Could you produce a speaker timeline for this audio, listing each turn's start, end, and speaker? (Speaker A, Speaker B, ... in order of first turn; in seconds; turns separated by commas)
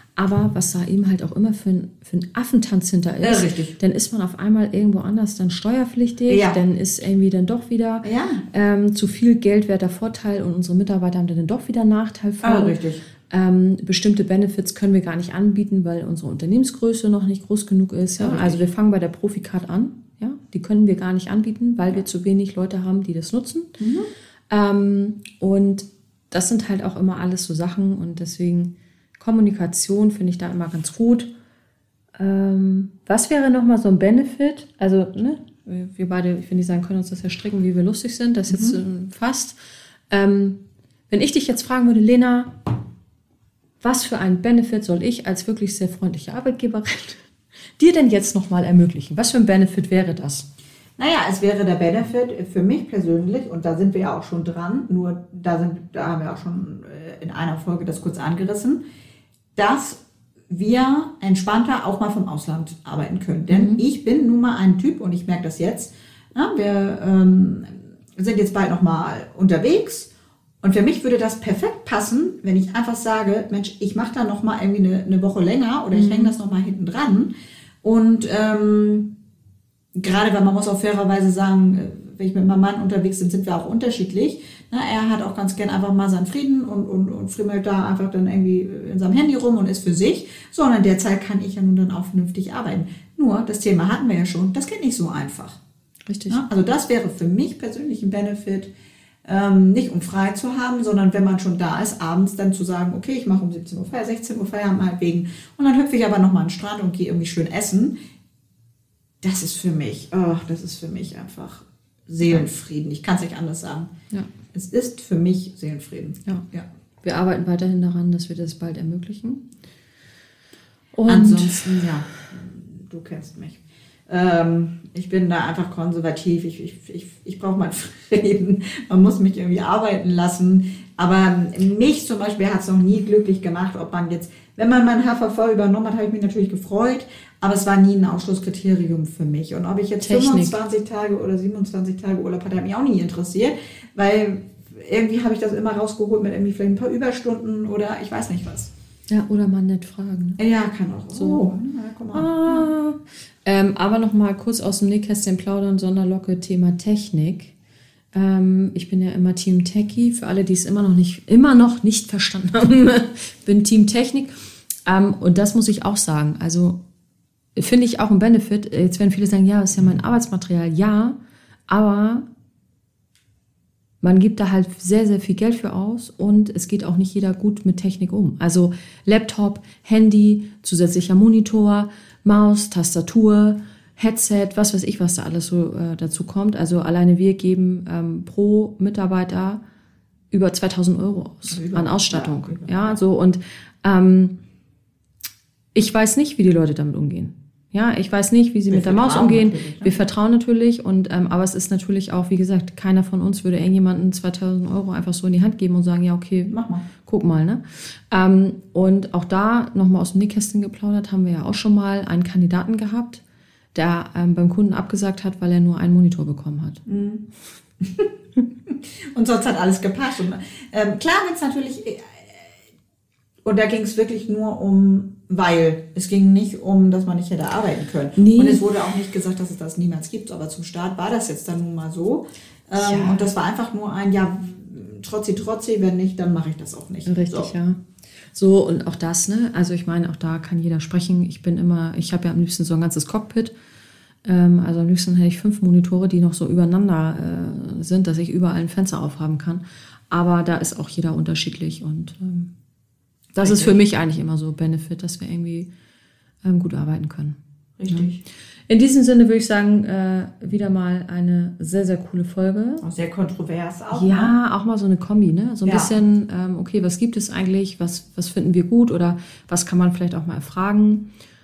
Speaker A: 0.2-12.8, Speaker B: 3.2-3.8, Speaker B: 6.3-6.6, Speaker B: 8.0-8.4, Speaker B: 12.4-13.0, Speaker A: 13.3-23.7, Speaker B: 18.2-18.6, Speaker B: 23.8-24.1, Speaker A: 24.5-31.3, Speaker A: 32.2-39.5, Speaker B: 38.5-38.8, Speaker A: 40.1-42.6, Speaker A: 43.8-47.2, Speaker A: 47.8-50.5, Speaker B: 51.0-58.8, Speaker B: 59.5-70.1, Speaker A: 63.5-63.8, Speaker B: 70.6-77.3, Speaker A: 75.9-76.3, Speaker B: 77.8-79.2, Speaker B: 79.9-95.6, Speaker A: 96.1-96.4, Speaker B: 96.3-98.7, Speaker B: 99.2-108.0, Speaker B: 109.2-113.9, Speaker B: 114.5-116.7, Speaker A: 117.0-119.5, Speaker A: 120.9-121.8, Speaker B: 121.1-148.7, Speaker A: 140.0-140.6, Speaker A: 149.1-150.4, Speaker B: 150.4-152.7, Speaker A: 151.1-151.5, Speaker A: 152.1-157.5, Speaker A: 158.1-164.3, Speaker A: 164.8-166.8, Speaker A: 167.6-171.2, Speaker A: 171.7-172.2, Speaker A: 174.0-189.6, Speaker A: 190.3-194.3, Speaker B: 191.5-193.0, Speaker A: 195.7-213.2, Speaker B: 198.7-199.9, Speaker B: 206.5-206.8, Speaker A: 213.7-216.8, Speaker B: 216.8-217.3, Speaker B: 217.8-218.1, Speaker B: 218.7-222.5, Speaker B: 223.4-237.5, Speaker A: 228.2-228.6, Speaker A: 232.8-233.3, Speaker A: 237.1-237.8, Speaker A: 238.3-243.5, Speaker A: 244.2-252.5, Speaker A: 253.3-255.7, Speaker B: 253.4-253.8, Speaker A: 256.4-257.4, Speaker B: 257.8-258.2, Speaker A: 258.7-262.8, Speaker B: 262.8-264.3, Speaker A: 263.9-271.1, Speaker B: 265.6-265.9